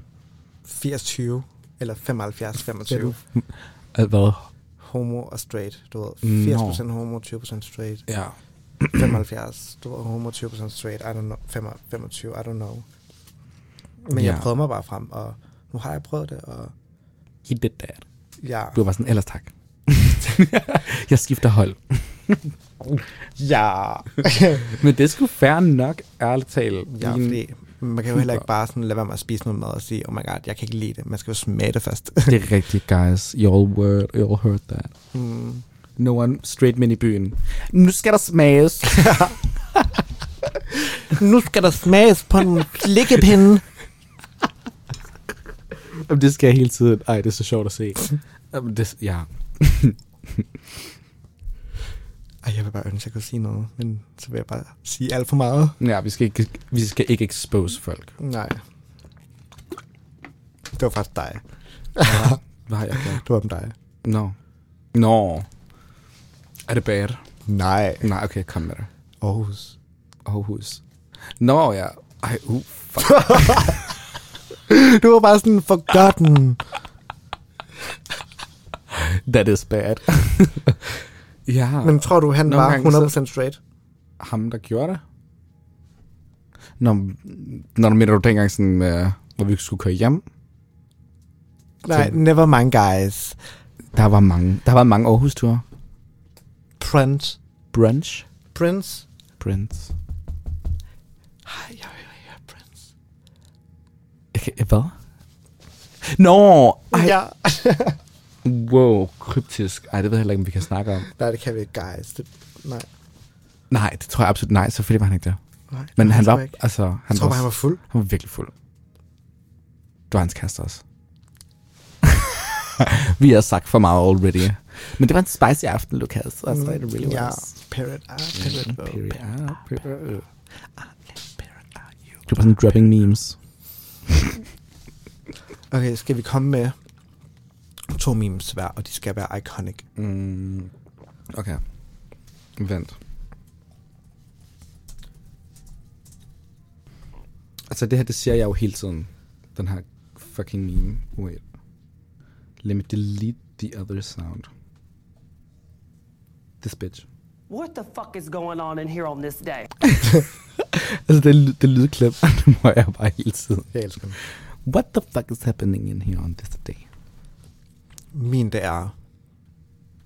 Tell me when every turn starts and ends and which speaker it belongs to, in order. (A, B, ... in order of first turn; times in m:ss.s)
0:00.6-0:03.2 A
0:02.9-0:04.5 B
0:04.8-0:08.0 A
0:06.2-0:06.8 B
0:08.1-0:09.0 B
0:08.9-0:12.8 A
0:14.0-0:16.7 A
0:14.1-0:14.5 B
0:17.4-0:18.0 B
0:18.4-0:18.8 A
0:18.7-0:22.5 B
0:23.4-0:24.7 A
0:24.6-0:27.4 B
0:26.9-0:32.4 A
0:28.1-0:28.4 B
0:32.2-0:34.9 B
0:35.1-0:35.6 A
0:36.0-0:39.4 B
0:39.0-0:39.3 A
0:40.9-0:43.6 A
0:45.9-0:50.4 B
0:52.4-0:55.8 A
0:55.8-0:58.1 B
0:58.2-0:58.6 A
1:00.7-1:01.4 A
1:01.9-1:02.4 A
1:02.0-1:03.2 B
1:02.9-1:03.8 A
1:04.0-1:04.4 B
1:04.9-1:05.5 B
1:06.7-1:07.2 B
1:07.4-1:08.1 A
1:08.0-1:08.9 B
1:09.2-1:09.8 A
1:10.2-1:10.8 B
1:11.4-1:13.8 B
1:13.1-1:13.8 A
1:14.7-1:16.6 A
1:18.9-1:20.9 B
1:21.4-1:23.1 B
1:21.8-1:23.6 A
1:24.2-1:25.0 B
1:26.8-1:30.2 B
1:31.8-1:33.4 A
1:31.9-1:32.2 B
1:33.9-1:35.6 B
1:36.8-1:37.4 A
1:37.7-1:38.3 B
1:38.5-1:39.1 A
1:39.4-1:39.9 B
1:41.4-1:42.9 A
1:44.3-1:44.9 B
1:46.0-1:47.1 B
1:46.9-1:48.0 A
1:48.4-1:51.1 B
1:51.1-1:52.9 A
1:53.7-1:55.4 B
1:55.7-1:56.6 A
1:56.0-1:58.5 B
1:57.1-1:57.8 A
2:00.1-2:00.8 B
2:02.0-2:07.5 B
2:06.5-2:09.2 A
2:08.3-2:10.2 B
2:11.1-2:11.5 A
2:12.3-2:13.4 B
2:14.1-2:14.4 B
2:15.7-2:16.8 A
2:17.9-2:19.8 A
2:20.0-2:20.7 B
2:21.3-2:21.6 B
2:22.6-2:23.0 B
2:27.7-2:31.4 B
2:32.6-2:34.5 B
2:36.6-2:37.0 B
2:37.5-2:39.7 C
2:39.8-2:43.7 B
2:43.7-2:44.2 A
2:44.6-2:46.8 B
2:48.1-2:48.9 A